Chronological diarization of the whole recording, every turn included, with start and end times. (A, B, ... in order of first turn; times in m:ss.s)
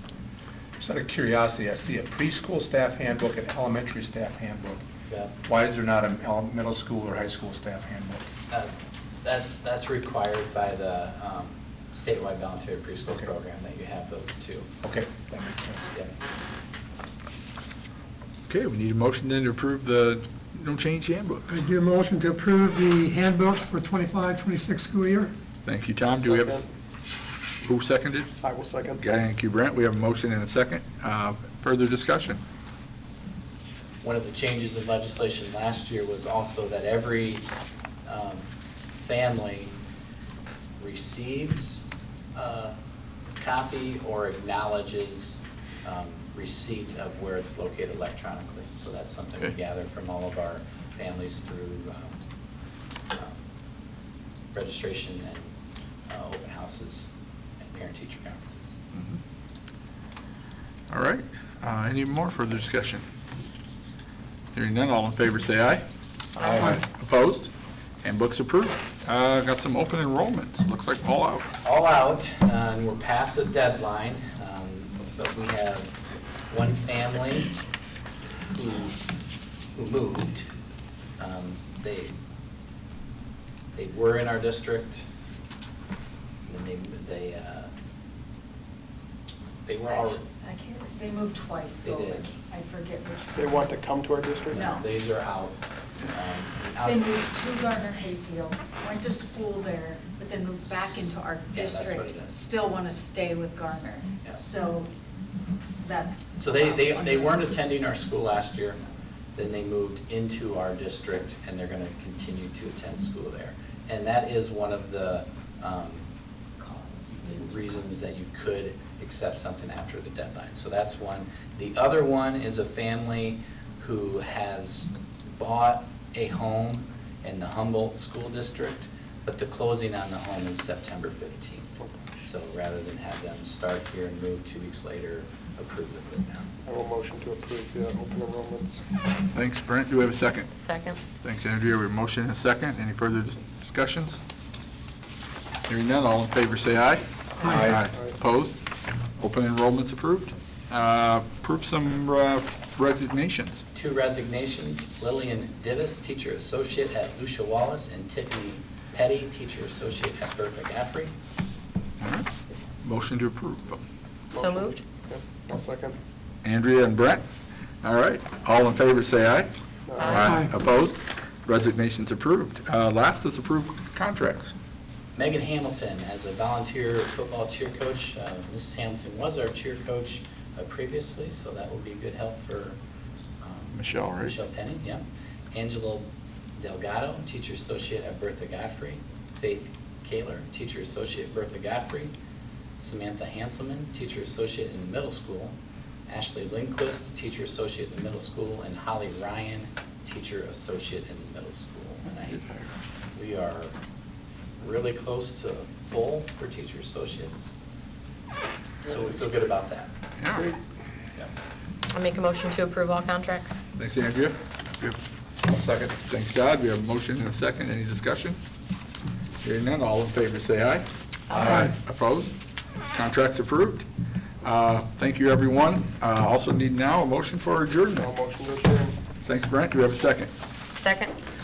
0:00.8-0:04.8 A
0:05.1-0:05.3 B
0:05.4-0:08.3 A
0:08.5-0:14.7 B
0:14.8-0:15.9 A
0:18.5-0:21.6 C
0:21.5-0:25.3 D
0:25.6-0:26.6 C
0:26.1-0:26.7 E
0:27.6-0:28.4 C
0:28.4-0:29.0 E
0:29.0-0:32.4 C
0:34.0-0:37.5 B
0:38.1-0:38.5 B
0:39.0-0:39.8 B
0:40.8-0:42.8 B
0:43.4-0:52.2 B
0:53.1-0:53.4 B
0:54.5-0:55.5 B
0:56.1-0:58.8 B
1:00.9-1:03.0 C
1:04.5-1:05.8 C
1:06.4-1:07.5 C
1:08.0-1:11.5 C
1:11.6-1:15.9 B
1:16.5-1:17.6 B
1:18.5-1:19.0 B
1:19.8-1:20.5 B
1:21.2-1:22.1 B
1:23.8-1:25.1 B
1:26.4-1:27.7 B
1:29.6-1:30.2 B
1:29.9-1:33.7 F
1:31.8-1:32.3 B
1:33.4-1:34.6 E
1:34.5-1:34.8 F
1:34.5-1:37.1 B
1:36.8-1:44.9 F
1:41.5-1:42.4 B
1:45.8-1:47.4 F
1:46.4-1:48.8 B
1:49.4-1:56.1 B
1:56.6-1:57.8 F
1:57.2-2:16.5 B
2:16.6-2:18.8 E
2:19.3-2:24.2 C
2:20.6-2:21.0 G
2:25.7-2:28.6 C
2:27.6-2:28.1 E
2:29.2-2:33.6 C
2:33.7-2:41.1 B
2:42.0-2:42.3 C
2:42.8-2:43.8 C
2:44.3-2:46.0 E
2:44.4-2:44.8 G
2:46.4-2:47.2 C
2:47.8-2:54.5 C
2:49.9-2:50.3 E
2:55.2-3:02.8 B
3:03.4-3:12.1 B
3:03.7-3:04.4 C
3:12.8-3:15.6 B
3:16.1-3:22.5 B
3:23.2-3:23.7 B
3:24.6-3:27.6 B
3:28.8-3:29.9 B
3:30.2-3:30.5 C
3:31.9-3:33.6 G
3:33.8-3:35.0 C
3:35.4-3:36.0 A
3:36.0-3:38.4 C
3:39.4-3:42.3 C
3:42.9-3:43.8 C
3:44.4-3:48.1 C
3:48.0-3:49.0 E
3:49.2-3:50.3 C
3:50.8-3:51.1 G